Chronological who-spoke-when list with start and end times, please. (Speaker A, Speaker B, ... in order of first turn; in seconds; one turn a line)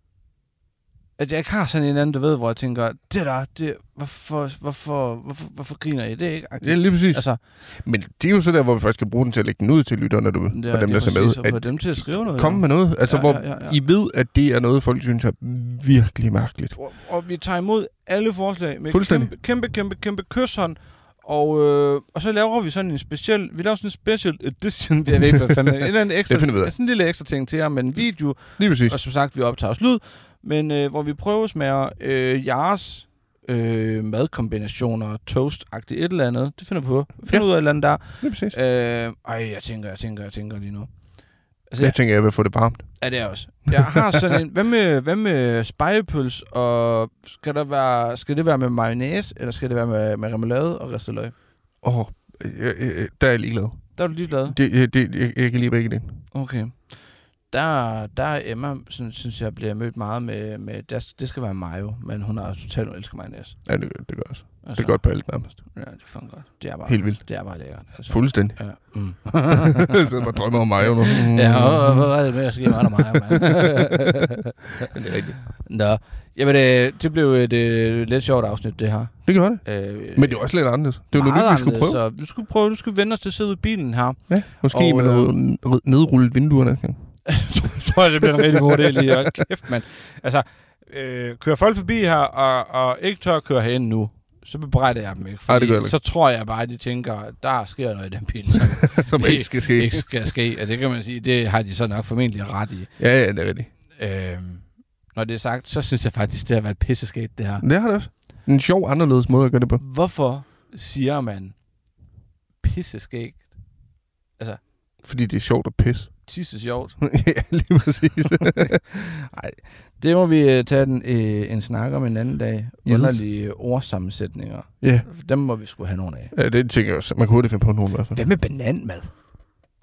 Speaker A: 1.2-7.4
Speaker B: 6.6-16.8
Speaker A: 10.5-13.8
Speaker A: 16.7-40.9
Speaker B: 18.9-19.3
Speaker B: 26.3-26.7
Speaker B: 28.6-29.0
Speaker B: 37.3-38.6
Speaker A: 41.7-42.0
Speaker B: 41.8-43.0
Speaker A: 43.0-51.3
Speaker B: 43.7-44.4
Speaker B: 51.8-56.2
Speaker A: 54.0-54.6
Speaker A: 56.3-63.6
Speaker B: 63.7-65.6
Speaker A: 64.6-70.2
Speaker B: 66.8-68.9
Speaker B: 69.5-74.2
Speaker A: 70.8-74.9
Speaker B: 74.8-75.4
Speaker A: 75.6-80.5
Speaker B: 79.3-82.0
Speaker A: 81.1-85.3
Speaker B: 84.3-87.1
Speaker A: 87.3-103.0
Speaker B: 88.3-89.2
Speaker B: 95.5-96.0
Speaker B: 99.0-100.2
Speaker B: 103.0-103.7
Speaker A: 104.0-107.7
Speaker B: 107.6-109.8
Speaker A: 109.8-111.6
Speaker A: 112.6-113.6
Speaker B: 115.0-116.3
Speaker A: 116.3-117.0
Speaker B: 117.0-118.9
Speaker A: 118.4-126.3
Speaker B: 122.8-123.2
Speaker B: 124.8-125.1
Speaker B: 126.3-128.2
Speaker A: 128.1-129.1